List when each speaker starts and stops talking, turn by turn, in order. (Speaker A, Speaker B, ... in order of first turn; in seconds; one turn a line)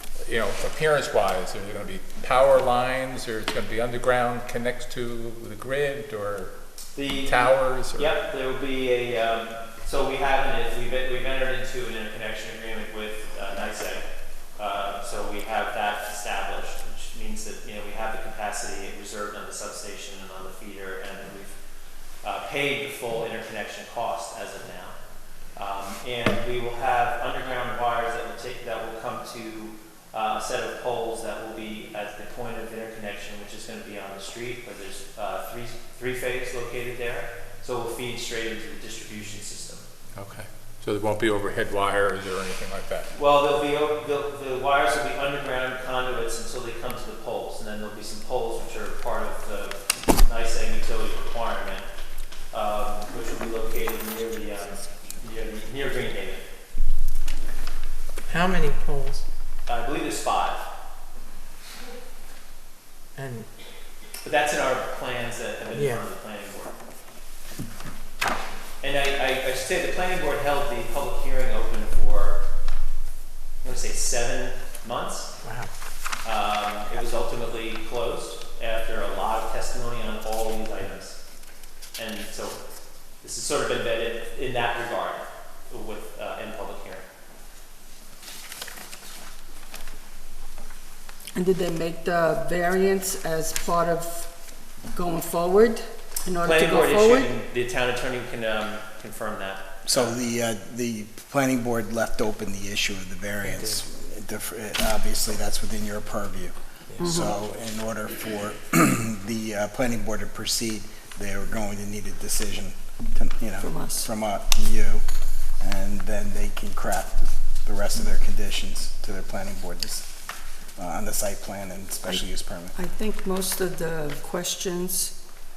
Speaker A: 0.2-6.5
Speaker B: 7.0-14.0
Speaker A: 7.2-8.1
Speaker B: 14.6-21.5
Speaker B: 22.2-24.9
Speaker B: 25.6-39.8
Speaker A: 40.1-43.1
Speaker B: 43.1-51.9
Speaker B: 52.5-56.4
Speaker C: 58.3-59.2
Speaker B: 59.7-60.6
Speaker C: 63.1-63.5
Speaker B: 64.2-66.7
Speaker C: 65.7-66.0
Speaker B: 68.8-72.4
Speaker B: 73.6-75.3
Speaker C: 75.4-75.7
Speaker B: 76.2-81.2
Speaker B: 82.0-82.6
Speaker B: 83.2-87.0
Speaker D: 91.3-94.3
Speaker D: 94.9-97.3
Speaker B: 96.4-100.2
Speaker E: 99.8-115.0
Speaker D: 107.0-107.3
Speaker D: 113.6-114.1
Speaker E: 115.6-120.1
Speaker E: 120.8-122.7
Speaker D: 122.7-125.1